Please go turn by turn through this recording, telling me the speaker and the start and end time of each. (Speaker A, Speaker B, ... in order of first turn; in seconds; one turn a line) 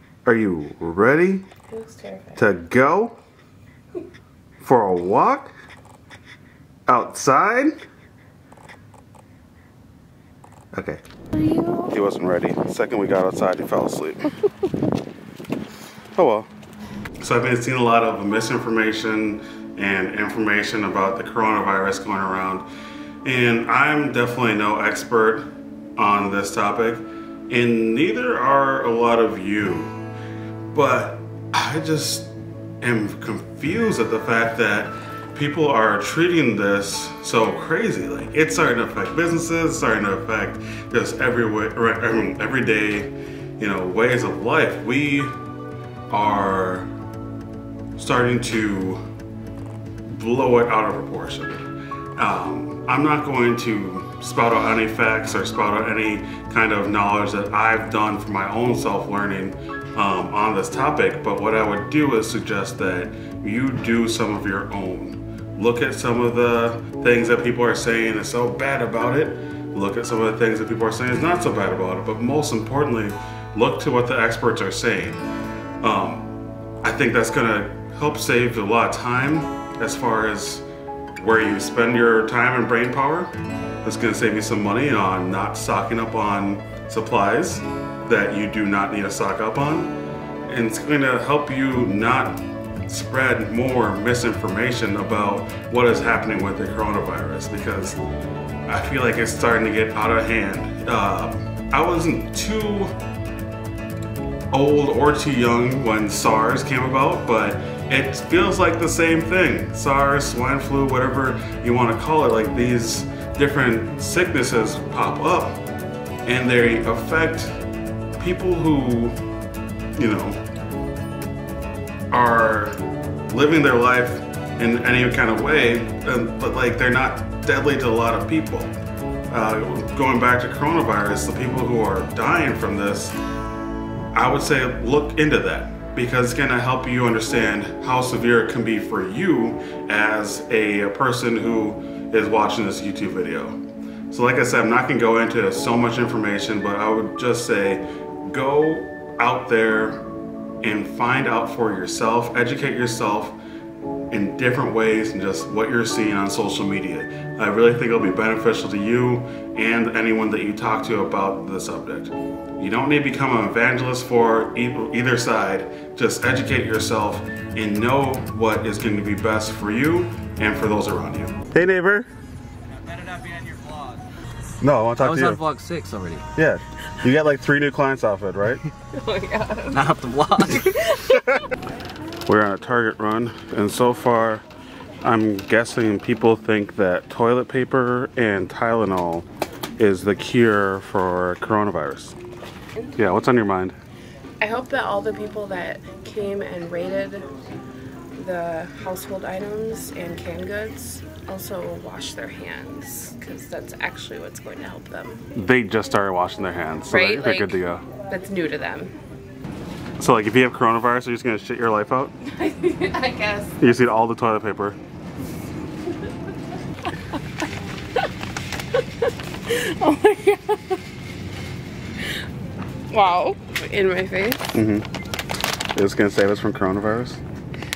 Speaker A: 0.2-1.5
Speaker B: 1.7-2.4
Speaker A: 2.4-3.1
Speaker A: 4.6-5.5
Speaker A: 6.9-7.7
Speaker A: 10.7-11.0
Speaker B: 11.4-11.9
Speaker A: 11.9-14.3
Speaker A: 16.1-16.5
Speaker A: 17.2-22.7
Speaker A: 23.2-29.9
Speaker A: 30.7-45.3
Speaker A: 46.1-46.9
Speaker A: 48.0-49.0
Speaker A: 50.1-51.6
Speaker A: 52.1-75.2
Speaker A: 75.8-76.3
Speaker A: 76.8-80.6
Speaker A: 81.2-83.3
Speaker A: 83.8-89.9
Speaker A: 90.5-98.0
Speaker A: 98.7-102.9
Speaker A: 104.5-115.6
Speaker A: 116.2-117.6
Speaker A: 118.2-119.2
Speaker A: 120.0-120.4
Speaker A: 122.1-122.8
Speaker A: 123.3-128.7
Speaker A: 129.3-133.2
Speaker A: 134.1-143.6
Speaker A: 144.1-150.0
Speaker A: 150.6-153.3
Speaker A: 154.1-172.1
Speaker C: 173.0-173.8
Speaker A: 174.6-175.4
Speaker C: 175.0-176.2
Speaker A: 176.3-178.6
Speaker B: 178.9-179.9
Speaker C: 179.7-180.7
Speaker B: 180.5-181.4
Speaker A: 182.2-184.4
Speaker A: 185.0-189.3
Speaker A: 189.8-192.2
Speaker A: 193.0-193.7
Speaker B: 194.4-197.3
Speaker B: 198.2-205.2
Speaker A: 205.3-207.8
Speaker B: 206.9-208.9
Speaker A: 210.0-212.2
Speaker B: 212.2-213.6
Speaker A: 213.6-214.8
Speaker B: 218.7-220.8
Speaker B: 222.9-224.6
Speaker A: 224.5-224.9
Speaker A: 225.7-227.2